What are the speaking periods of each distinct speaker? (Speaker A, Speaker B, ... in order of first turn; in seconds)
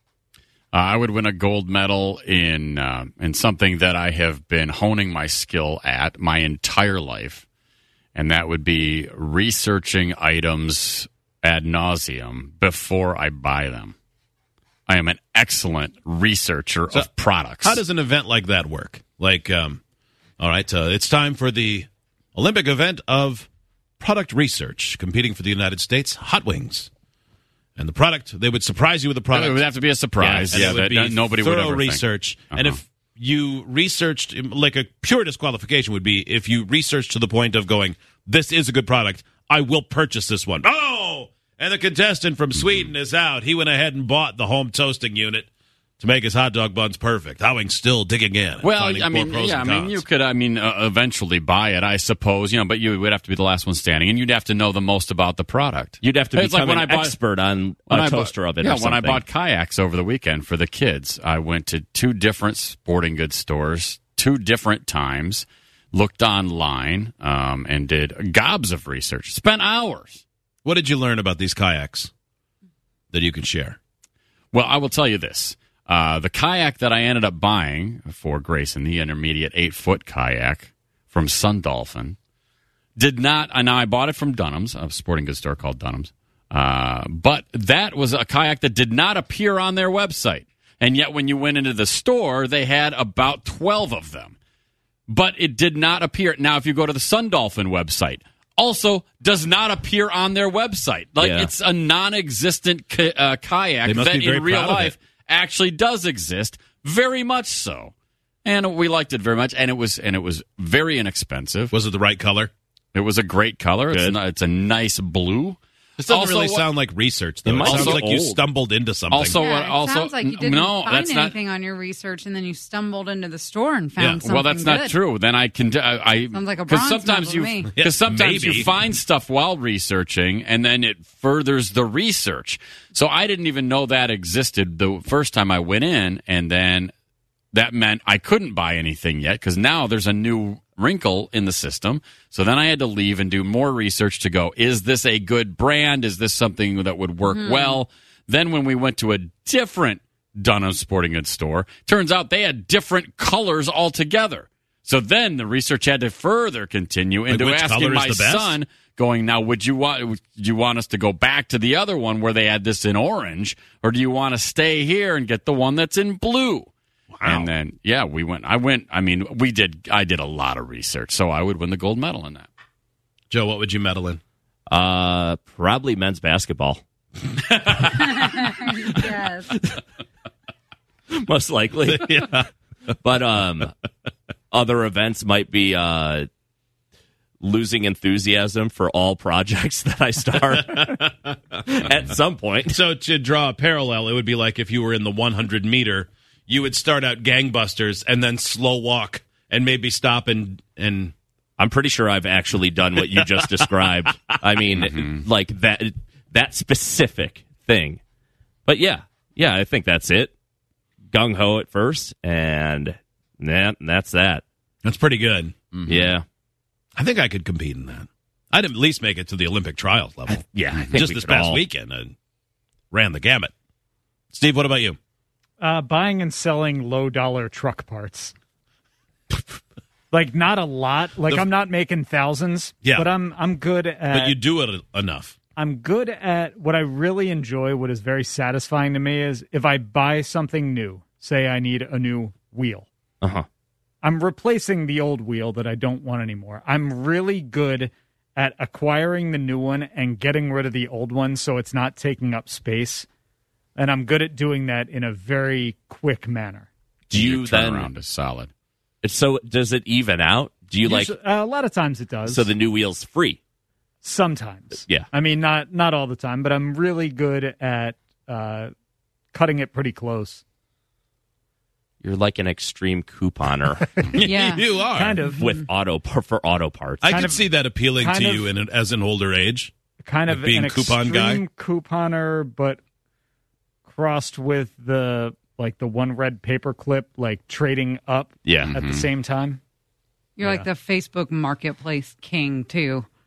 Speaker A: 0.7-7.4, 8.2-13.9, 14.9-17.8, 29.3-32.8, 42.5-42.9, 48.6-57.2, 57.9-70.2, 74.5-82.2, 83.0-94.3, 95.1-107.9, 108.5-111.8, 112.9-116.8, 117.6-118.2, 119.1-121.3, 124.2-136.9, 137.5-166.7, 167.2-172.5, 204.8-205.3, 215.7-216.1, 257.1-258.5, 288.6-289.1
Speaker B: 17.6-19.8, 20.4-23.5, 24.0-26.9, 27.8-29.6, 30.5-45.5, 46.0-50.0, 70.7-72.1, 73.1-73.8, 103.8-105.0, 111.7-112.5, 116.0-119.4, 124.0-124.3, 127.7-128.7, 157.3-158.6, 167.1-167.4, 173.3-174.2, 182.0-182.4, 190.7-191.1, 192.7-201.1, 203.6-204.4, 214.8-215.6, 217.0-222.1, 222.9-223.5, 224.3-225.0, 232.8-233.1, 234.1-235.4, 274.1-275.3, 277.0-279.7, 280.3-281.4
Speaker C: 30.2-30.7, 56.0-59.2, 101.2-101.5, 113.9-114.2, 117.5-118.5, 174.7-176.8, 181.1-182.4, 183.0-183.7, 184.5-186.3, 187.4-191.0, 191.6-192.8, 201.6-208.0, 208.7-210.3, 211.1-214.4, 215.9-216.3, 220.3-221.7, 243.2-243.5, 257.1-257.9, 259.0-261.1, 262.2-263.4, 264.7-265.1, 272.0-273.9, 275.4-277.4, 288.4-288.8
Speaker D: 119.3-125.0, 126.3-127.7, 147.3-147.8, 177.8-179.6, 274.2-274.8, 290.4-293.1
Speaker E: 225.6-228.3, 230.1-234.3, 235.6-242.9, 244.0-253.1, 253.8-256.7, 260.8-262.4, 264.0-268.7, 269.3-270.4, 274.9-275.4, 278.0-278.4, 280.0-282.8, 283.9-289.6